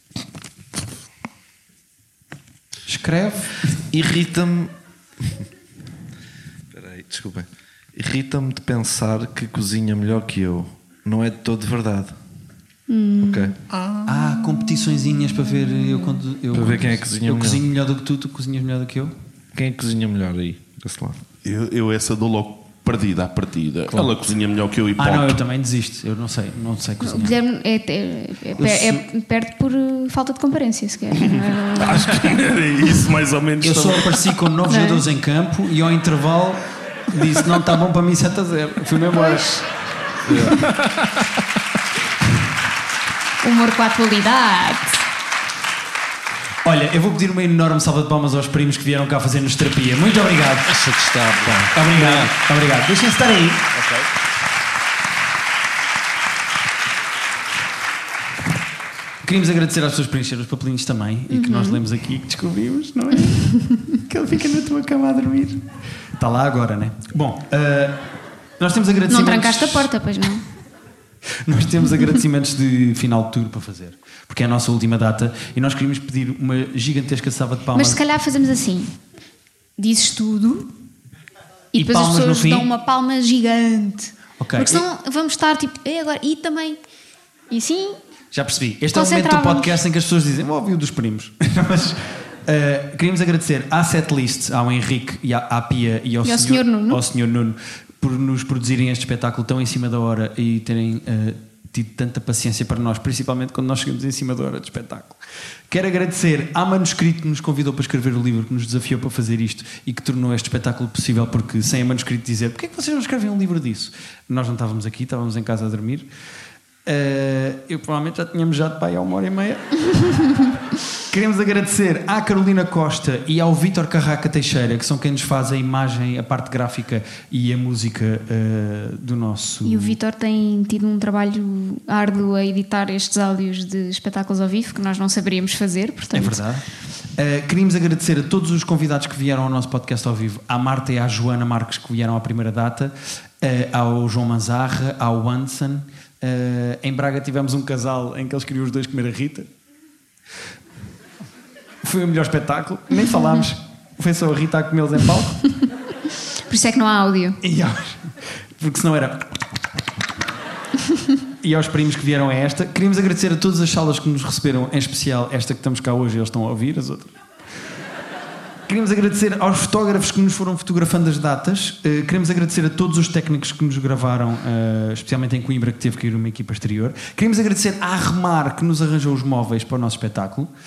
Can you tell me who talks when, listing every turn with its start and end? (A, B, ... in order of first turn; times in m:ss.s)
0:02.9-0:03.7 A
0:03.9-0:04.7 B
0:06.7-0:12.2 B
0:12.9-0:13.6 C
0:13.2-0:13.6 B
0:14.0-0:19.2 A
0:16.5-0:17.6 B
0:19.5-0:21.2 B
0:21.4-0:25.4 D
0:25.0-0:27.4 A
0:27.0-0:32.3 C
0:28.6-0:29.0 A
0:31.2-0:34.3 D
0:33.6-0:39.5 A
0:34.7-0:35.0 C
0:39.1-0:39.7 C
0:40.2-0:40.7 B
0:40.6-0:41.1 D
0:43.4-0:45.0 C
0:46.6-0:50.7 A
0:50.7-0:52.3 B
0:51.7-0:53.7 A
0:59.2-1:08.0 A
1:01.3-1:01.8 C
1:03.6-1:03.8 C
1:08.6-1:09.9 A
1:09.1-1:10.4 C
1:11.4-1:18.0 A
1:17.7-1:18.9 C
1:19.8-1:20.7 C
1:21.7-1:26.8 C
1:21.7-1:22.7 A
1:24.4-1:24.8 A
1:27.5-1:28.0 C
1:28.3-1:56.1 A
1:28.9-1:29.8 C
1:36.2-1:37.0 C
1:56.8-2:00.0 A
2:01.1-2:10.0 A
2:09.6-2:16.4 C
2:16.1-2:29.5 A
2:31.8-2:35.4 A
2:36.5-2:37.4 C
2:37.4-2:39.6 A
2:41.4-2:47.1 A
2:48.7-3:00.5 A